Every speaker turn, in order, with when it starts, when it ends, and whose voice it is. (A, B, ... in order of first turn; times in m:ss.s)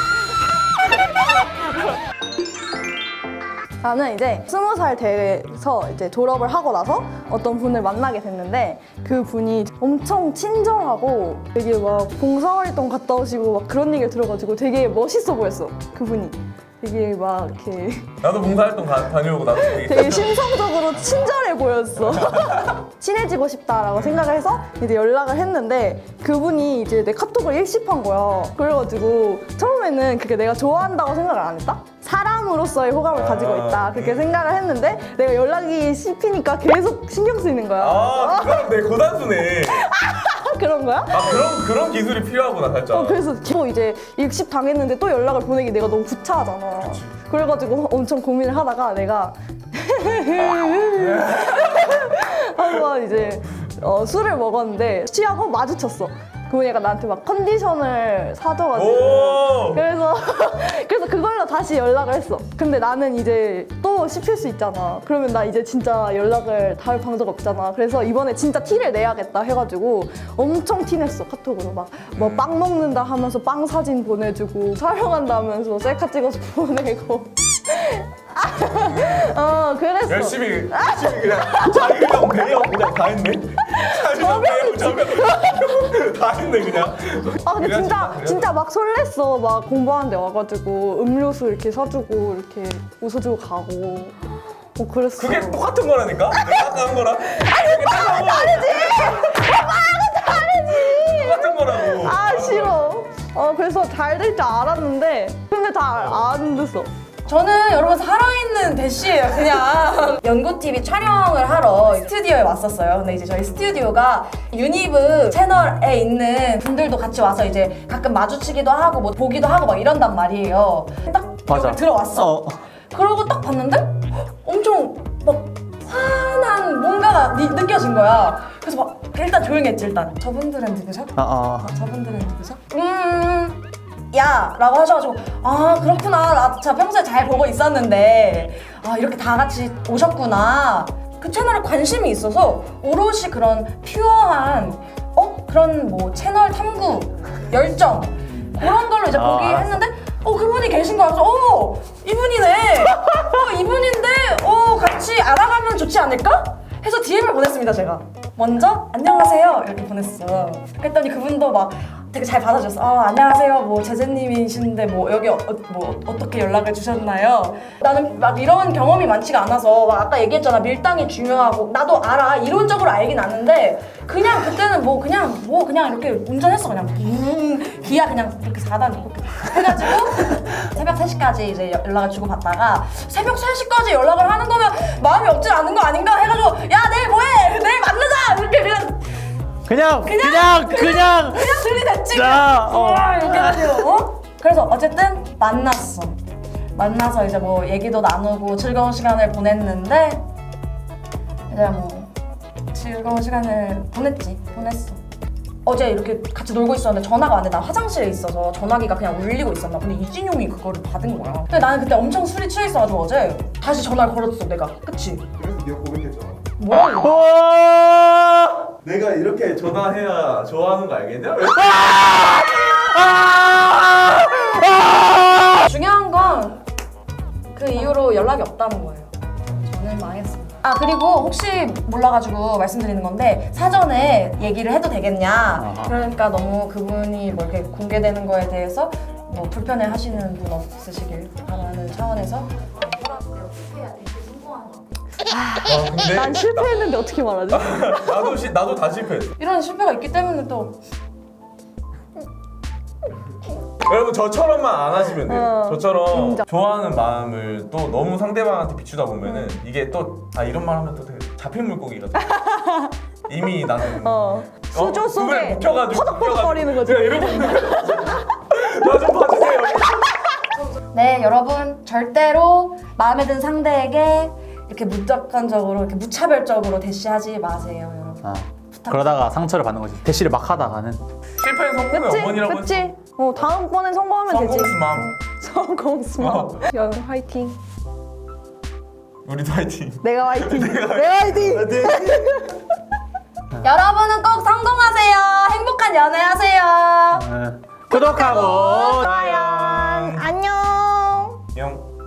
0:03.8-0:18.1 A
0:18.2-0:21.3 B
0:19.5-0:38.8 A
0:22.0-0:22.8 B
0:23.9-0:24.2 B
0:33.1-0:34.3 B
0:37.8-0:39.9 B
0:39.8-0:41.4 A
0:41.1-0:43.2 B
0:42.9-1:22.1 A
0:46.8-0:47.1 B
0:50.9-0:51.9 B
0:58.7-0:59.8 B
1:12.1-1:12.5 B
1:20.1-1:28.5 B
1:23.7-1:25.6 A
1:27.4-1:34.1 A
1:34.8-1:35.6 A
1:35.2-1:39.4 B
1:36.3-1:46.9 A
1:40.7-1:43.0 B
1:47.2-2:02.3 C
2:01.5-2:02.6 D
2:02.9-2:13.6 C
2:11.2-2:11.7 D
2:14.1-3:09.1 C
2:29.1-2:29.8 D
3:09.6-3:13.8 D
3:10.0-3:16.2 C
3:16.7-3:20.2 C
3:21.5-3:22.1 C
3:22.7-3:25.0 C
3:25.6-3:35.2 C
3:35.4-3:36.4 B
3:36.6-3:37.3 C
3:37.2-3:38.1 D
3:38.8-3:42.5 B
3:45.5-3:46.6 C
3:47.5-4:02.5 C
3:55.5-3:56.0 D
4:03.6-4:04.6 C
4:05.2-4:08.4 A
4:05.6-4:07.0 B
4:07.5-4:09.4 B
4:09.4-4:10.8 C
4:13.8-4:22.5 B
4:15.2-4:16.4 A
4:22.3-4:22.9 A
4:23.3-4:30.1 B
4:24.0-4:28.0 A
4:30.9-4:38.2 C
4:38.2-4:41.0 D
4:41.4-4:42.9 B
4:41.9-4:47.6 A
4:44.3-4:45.1 B
4:46.2-4:46.6 B
4:49.2-4:52.3 B
4:50.0-4:52.6 A
4:53.6-4:57.2 C
4:57.1-4:59.3 D
4:57.9-5:01.4 A
4:59.1-5:00.2 B
5:01.5-5:01.8 B